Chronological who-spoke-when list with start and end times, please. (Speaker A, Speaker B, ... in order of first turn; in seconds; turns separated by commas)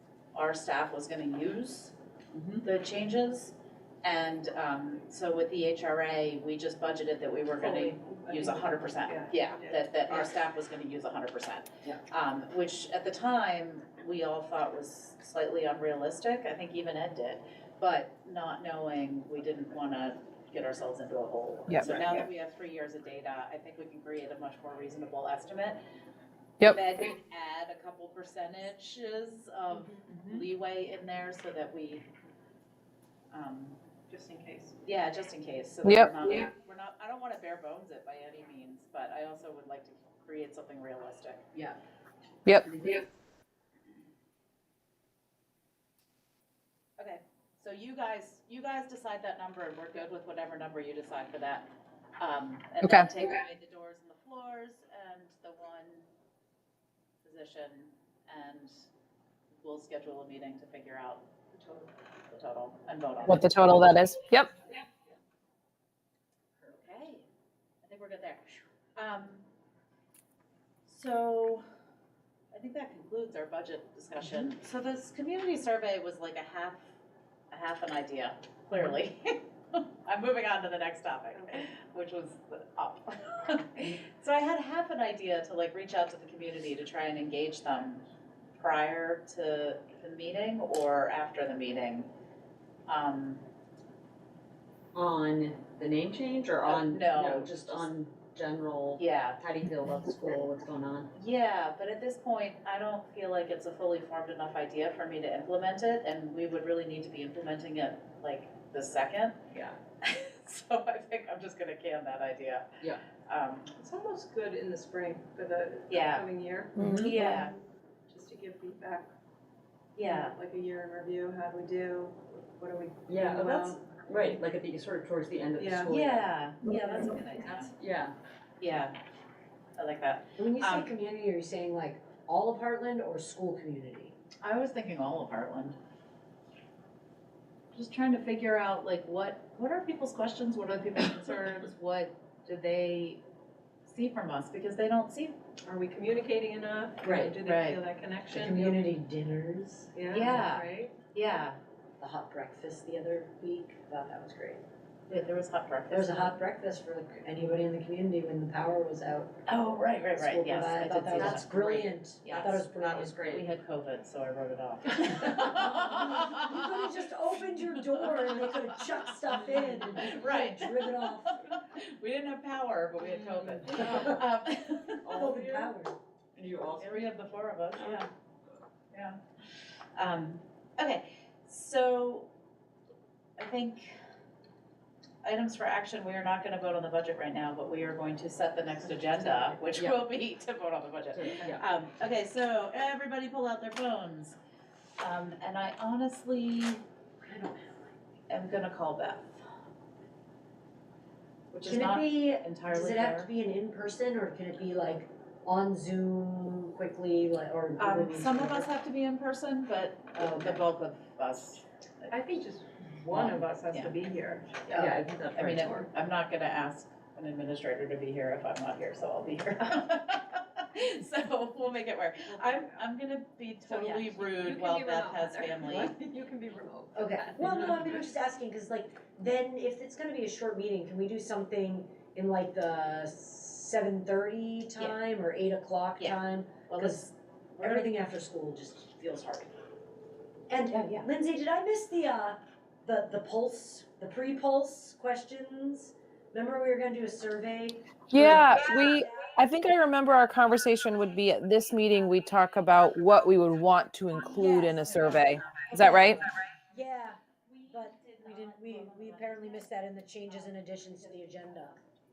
Speaker A: 0.3-1.9, Speaker B: 2.3-2.6, Speaker A: 2.6-25.8, Speaker C: 7.6-10.3, Speaker A: 26.6-32.0, Speaker C: 29.7-30.5, Speaker A: 33.3-33.8, Speaker C: 34.1-34.8, Speaker A: 34.8-41.7, Speaker D: 35.8-36.5, Speaker D: 42.5-43.0, Speaker A: 42.7-43.0, Speaker A: 47.0-51.6, Speaker A: 52.2-56.1, Speaker D: 52.8-53.3, Speaker A: 57.2-58.7, Speaker A: 59.6-61.2, Speaker C: 61.5-61.9, Speaker A: 62.3-63.6, Speaker D: 63.2-64.5, Speaker A: 66.7-67.3, Speaker A: 67.8-69.5, Speaker A: 70.9-71.6, Speaker A: 72.5-76.8, Speaker A: 77.5-88.0, Speaker C: 81.3-81.7, Speaker A: 88.6-92.1, Speaker A: 92.9-93.4, Speaker B: 94.9-101.1, Speaker A: 96.6-97.9, Speaker A: 99.0-99.4, Speaker A: 101.1-109.4, Speaker B: 109.5-109.8, Speaker A: 110.0-112.7, Speaker A: 113.3-113.7, Speaker C: 113.7-117.5, Speaker A: 115.9-116.3, Speaker B: 116.8-117.3, Speaker D: 116.8-117.1, Speaker A: 117.0-117.5, Speaker C: 118.1-119.1, Speaker A: 120.0-120.3, Speaker C: 120.0-123.8, Speaker B: 123.1-126.3, Speaker C: 125.6-126.0, Speaker A: 125.9-127.7, Speaker D: 126.7-127.1, Speaker B: 127.6-128.1, Speaker A: 128.6-128.9, Speaker A: 129.8-130.9, Speaker E: 130.4-134.2, Speaker A: 134.4-135.8, Speaker A: 137.7-143.2, Speaker A: 143.9-145.4, Speaker C: 145.7-148.8, Speaker A: 147.4-147.8, Speaker E: 148.3-149.9, Speaker C: 149.9-150.9, Speaker A: 150.1-151.6, Speaker E: 152.0-154.6, Speaker A: 155.1-156.3, Speaker E: 155.9-159.3, Speaker A: 159.5-166.7, Speaker E: 160.2-163.2, Speaker B: 161.1-163.5, Speaker E: 165.2-171.3, Speaker A: 167.4-175.1, Speaker C: 169.5-169.8, Speaker B: 173.7-174.1, Speaker E: 173.8-174.2, Speaker B: 175.0-175.7, Speaker E: 175.1-175.9, Speaker B: 176.4-177.1, Speaker A: 176.8-178.1, Speaker A: 178.9-179.2, Speaker A: 180.0-182.3, Speaker A: 183.4-184.0, Speaker A: 185.2-194.4, Speaker B: 189.1-190.0, Speaker B: 191.2-191.7, Speaker A: 195.0-196.8, Speaker E: 197.2-197.9, Speaker A: 198.3-199.3, Speaker A: 201.5-203.3, Speaker E: 201.7-208.7, Speaker A: 207.8-212.1, Speaker E: 210.2-210.6, Speaker C: 212.1-214.6, Speaker A: 213.1-213.9, Speaker A: 214.7-226.0, Speaker B: 214.7-215.9, Speaker C: 222.3-222.8, Speaker C: 223.7-226.4, Speaker B: 224.9-227.5, Speaker E: 226.9-239.5, Speaker C: 227.4-228.0, Speaker A: 236.0-237.9, Speaker E: 240.5-249.4, Speaker A: 240.7-241.1, Speaker D: 248.1-256.2, Speaker E: 254.3-261.8, Speaker A: 257.5-259.6